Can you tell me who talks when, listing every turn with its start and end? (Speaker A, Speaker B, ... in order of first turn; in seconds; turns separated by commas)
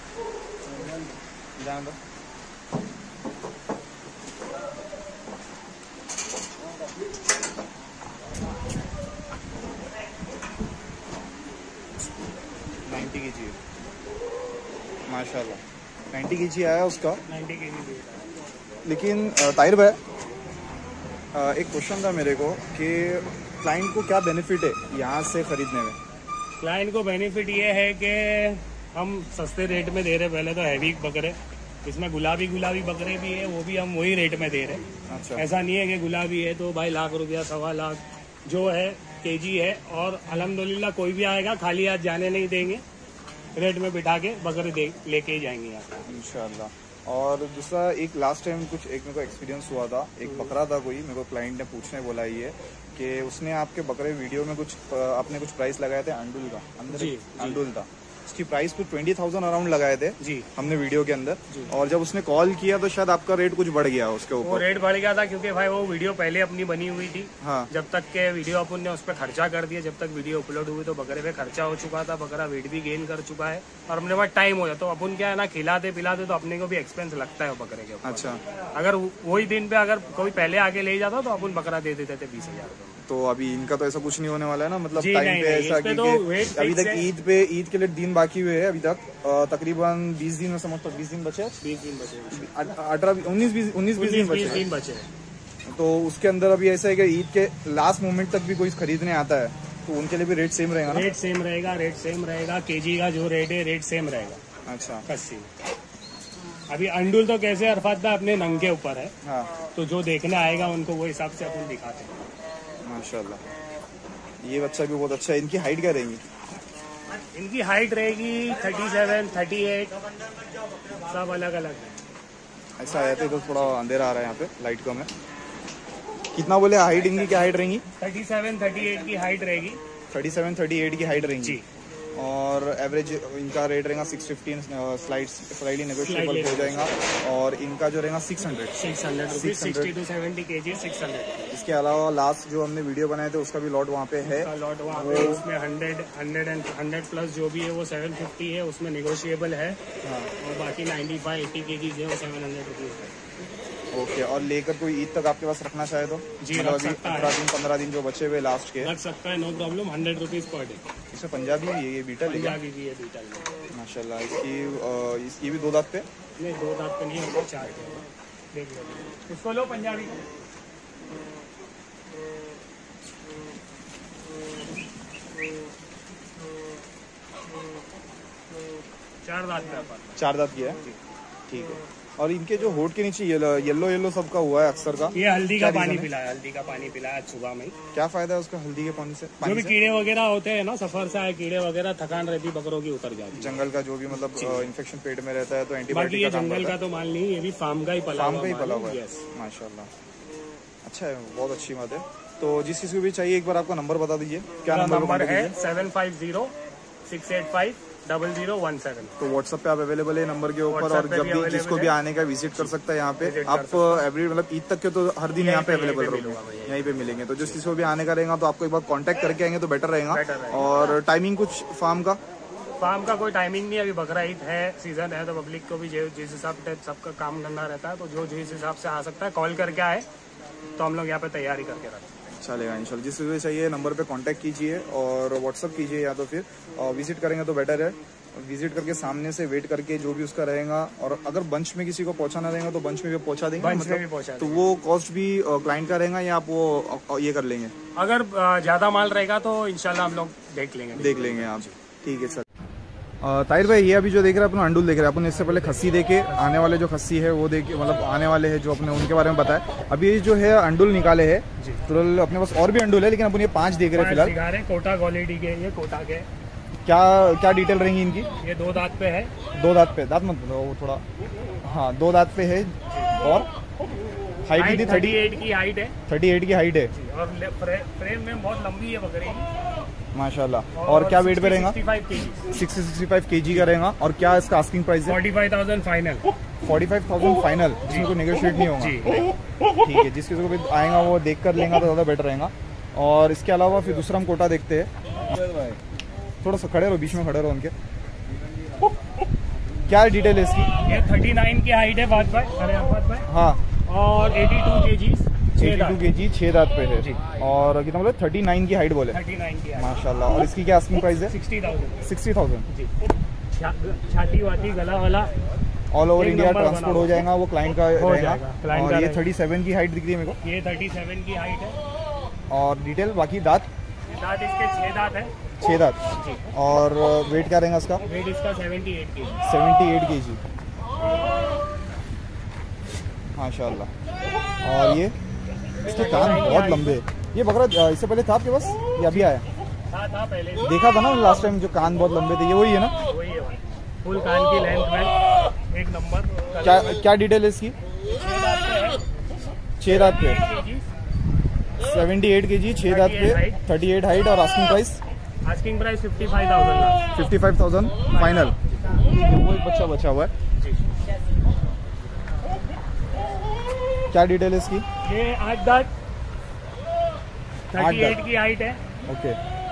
Speaker A: 1.6-2.0, Speaker A: 12.9-13.6, Speaker A: 15.1-15.6, Speaker A: 16.1-17.2, Speaker B: 17.2-18.2, Speaker A: 18.8-20.0, Speaker A: 21.3-26.0, Speaker B: 26.6-42.8, Speaker A: 35.1-35.4, Speaker B: 43.5-46.1, Speaker A: 46.1-64.6, Speaker B: 50.2-50.5, Speaker B: 56.9-57.6, Speaker B: 60.2-60.5, Speaker B: 64.4-83.0, Speaker A: 67.4-67.7, Speaker A: 78.0-78.4, Speaker A: 83.1-91.6, Speaker B: 84.9-87.0, Speaker B: 91.6-92.5, Speaker A: 92.3-94.7, Speaker B: 93.9-95.1, Speaker A: 95.7-101.1, Speaker B: 100.9-104.4, Speaker A: 104.7-105.0, Speaker B: 105.0-105.5, Speaker B: 106.7-109.1, Speaker A: 109.2-109.5, Speaker B: 109.7-112.2, Speaker A: 112.8-113.4, Speaker A: 114.4-116.2, Speaker B: 117.3-120.0, Speaker B: 120.9-122.0, Speaker A: 122.8-125.1, Speaker A: 126.3-127.8, Speaker B: 128.0-129.8, Speaker A: 130.1-131.6, Speaker B: 131.3-131.6, Speaker A: 132.2-139.9, Speaker B: 136.0-136.9, Speaker B: 138.7-141.5, Speaker A: 141.5-145.4, Speaker B: 144.2-149.8, Speaker A: 150.0-150.3, Speaker B: 150.4-153.2, Speaker A: 153.9-158.9, Speaker B: 156.4-157.4, Speaker B: 158.8-160.8, Speaker A: 161.1-162.6, Speaker B: 162.2-163.5, Speaker A: 163.7-166.1, Speaker B: 166.4-170.2, Speaker B: 179.2-180.2, Speaker A: 180.2-180.8, Speaker A: 181.5-186.1, Speaker B: 185.1-187.7, Speaker A: 187.9-189.7, Speaker B: 189.4-193.6, Speaker A: 193.3-196.8, Speaker B: 194.2-194.7, Speaker B: 195.9-199.2, Speaker A: 198.1-199.9, Speaker A: 200.8-205.5, Speaker B: 204.7-206.5, Speaker B: 207.1-209.2, Speaker A: 209.2-222.2, Speaker B: 210.7-211.9, Speaker B: 212.6-214.1, Speaker B: 215.3-217.6, Speaker B: 220.1-220.9, Speaker B: 222.8-230.1, Speaker B: 230.8-232.1, Speaker A: 232.3-247.7, Speaker B: 243.6-244.6, Speaker B: 247.9-251.7, Speaker A: 250.9-252.4, Speaker A: 253.2-264.3, Speaker B: 255.3-256.6, Speaker B: 263.9-266.3, Speaker A: 266.9-268.3, Speaker B: 268.4-269.3, Speaker A: 269.5-271.0, Speaker A: 271.6-273.5, Speaker A: 274.4-275.2, Speaker B: 274.6-275.9, Speaker A: 276.1-276.9, Speaker B: 276.9-279.5, Speaker A: 280.1-281.8, Speaker B: 280.7-282.4, Speaker A: 282.5-285.2, Speaker B: 283.4-283.7, Speaker B: 285.1-286.3, Speaker A: 286.6-289.0, Speaker B: 287.8-288.1, Speaker B: 288.8-289.3, Speaker A: 289.7-295.8, Speaker A: 296.4-297.7, Speaker A: 299.9-300.7, Speaker B: 300.8-303.3, Speaker A: 303.3-303.6, Speaker B: 303.9-306.0, Speaker A: 305.6-309.2, Speaker B: 309.1-310.0, Speaker A: 309.7-311.3, Speaker B: 311.2-312.1, Speaker A: 312.0-312.6, Speaker B: 313.5-315.3, Speaker A: 315.9-320.4, Speaker B: 316.2-317.1, Speaker B: 317.9-319.2, Speaker B: 320.4-321.8, Speaker A: 322.5-323.7, Speaker B: 324.1-325.3, Speaker A: 325.6-326.0, Speaker B: 326.2-326.4, Speaker A: 326.5-328.0, Speaker B: 328.0-329.4, Speaker A: 329.4-330.4, Speaker A: 333.4-333.9, Speaker A: 334.6-335.1, Speaker B: 335.8-337.0, Speaker A: 335.8-339.4, Speaker B: 339.1-340.8, Speaker A: 340.6-342.9, Speaker B: 343.0-346.9, Speaker A: 346.6-347.8, Speaker B: 348.1-349.0, Speaker A: 349.8-350.4, Speaker B: 349.8-350.9, Speaker A: 351.8-355.0, Speaker B: 352.8-353.6, Speaker B: 355.4-357.0, Speaker A: 357.1-360.3, Speaker B: 358.1-358.5, Speaker B: 360.6-360.8, Speaker A: 364.1-364.8, Speaker B: 365.0-365.9, Speaker B: 367.7-368.8, Speaker A: 367.8-368.2, Speaker A: 369.1-369.4